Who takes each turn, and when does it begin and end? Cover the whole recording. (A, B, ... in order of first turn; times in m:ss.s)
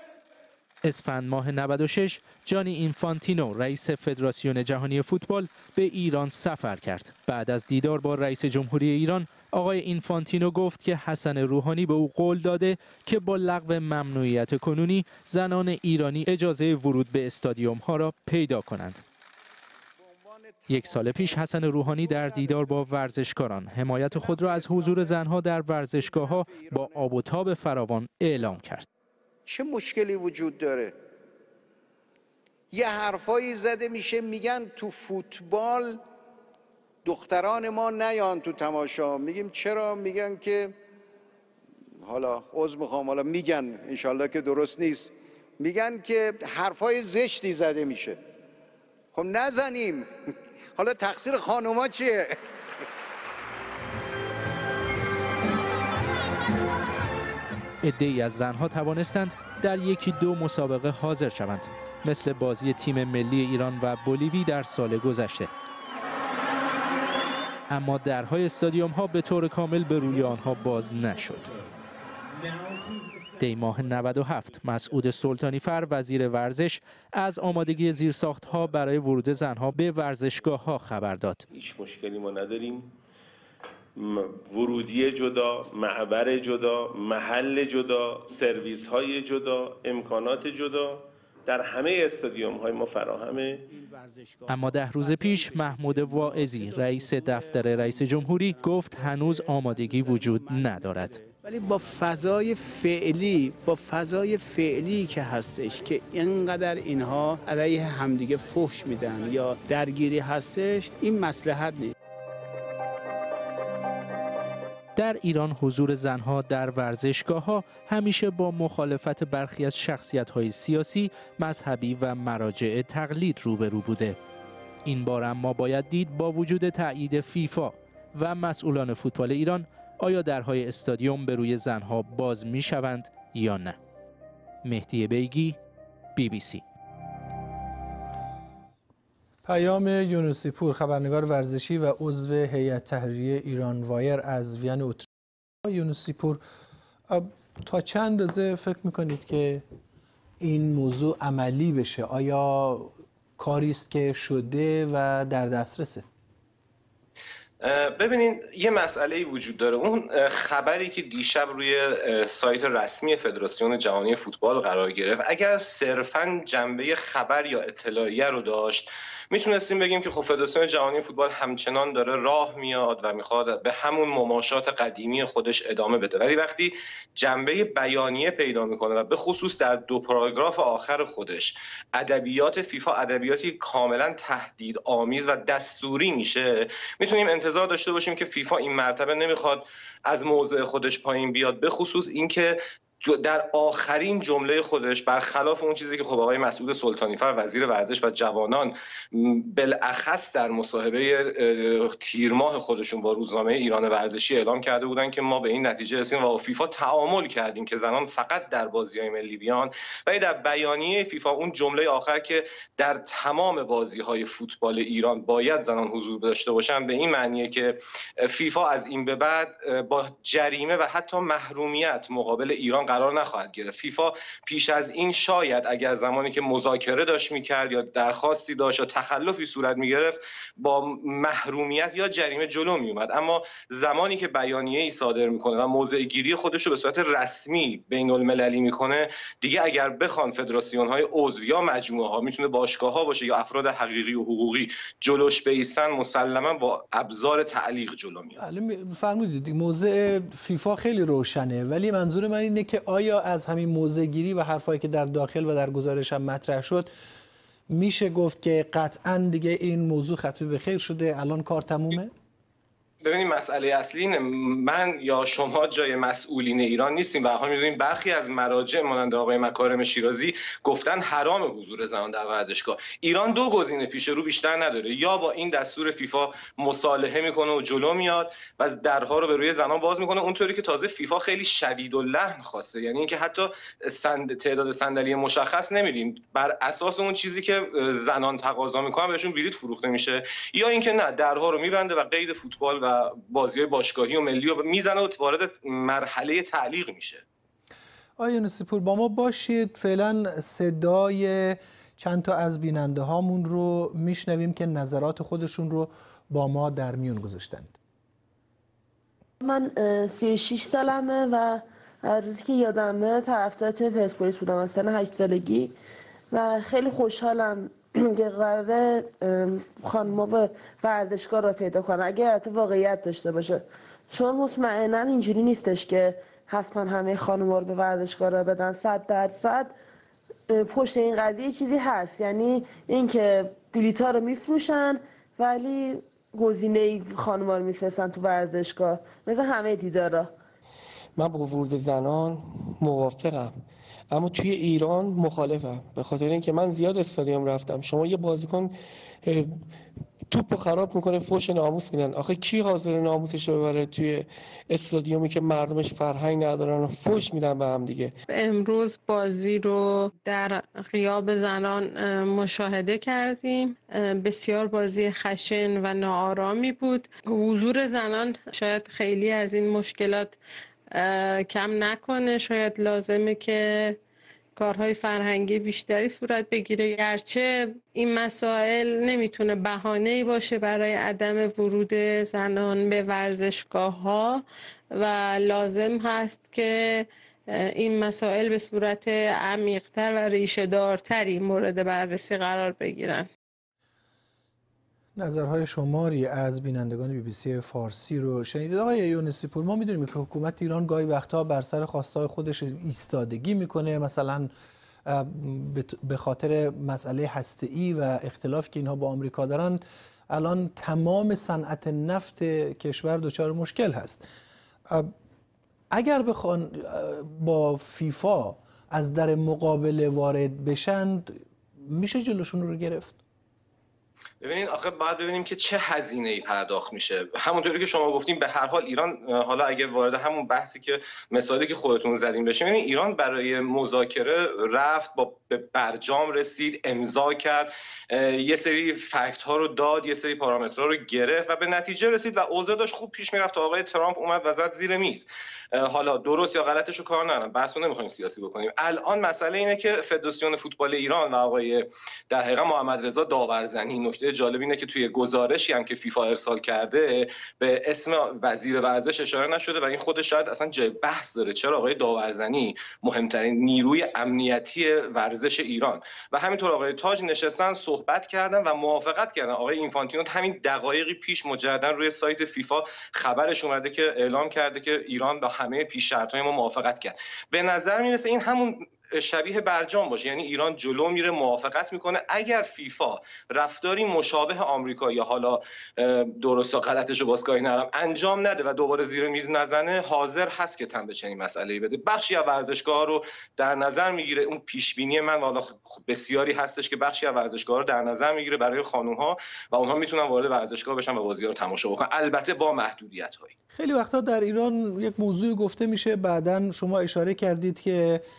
0:00.8-0:19.0 A
0:20.2-0:20.7 B
0:20.7-0:28.9 A
0:29.4-0:31.0 B
0:32.7-0:36.0 B
0:37.0-0:40.8 B
0:42.0-0:48.2 B
0:49.1-0:50.1 B
0:50.8-0:52.4 B
0:57.8-1:05.5 A
1:07.7-1:11.6 A
1:13.4-1:21.4 A
1:21.5-1:23.0 C
1:24.0-1:33.7 C
1:33.8-1:34.5 D
1:34.5-1:41.2 A
1:39.7-1:40.2 D
1:40.8-1:51.9 D
1:55.0-2:04.2 A
2:04.8-2:13.8 A
2:14.6-2:15.6 A
2:16.2-2:16.6 A
2:19.4-2:25.1 E
2:25.6-2:26.4 E
2:27.1-2:29.6 E
2:30.4-2:36.0 E
2:37.6-4:08.4 F
4:08.4-4:16.9 E
4:17.7-4:22.1 E
4:23.0-4:57.2 F
4:58.2-5:07.8 E
5:09.4-5:15.7 G
5:16.3-5:29.7 G
5:30.5-5:40.3 G
5:41.2-5:43.6 H
5:44.1-5:49.6 H
5:50.3-5:58.1 H
5:58.3-6:10.4 I
6:10.9-6:14.0 I
6:14.6-6:24.4 I
6:24.9-6:33.3 I
6:35.2-6:44.5 E
6:45.1-6:54.3 E
6:55.9-7:03.2 E
7:04.4-8:23.5 F
8:23.7-8:28.2 E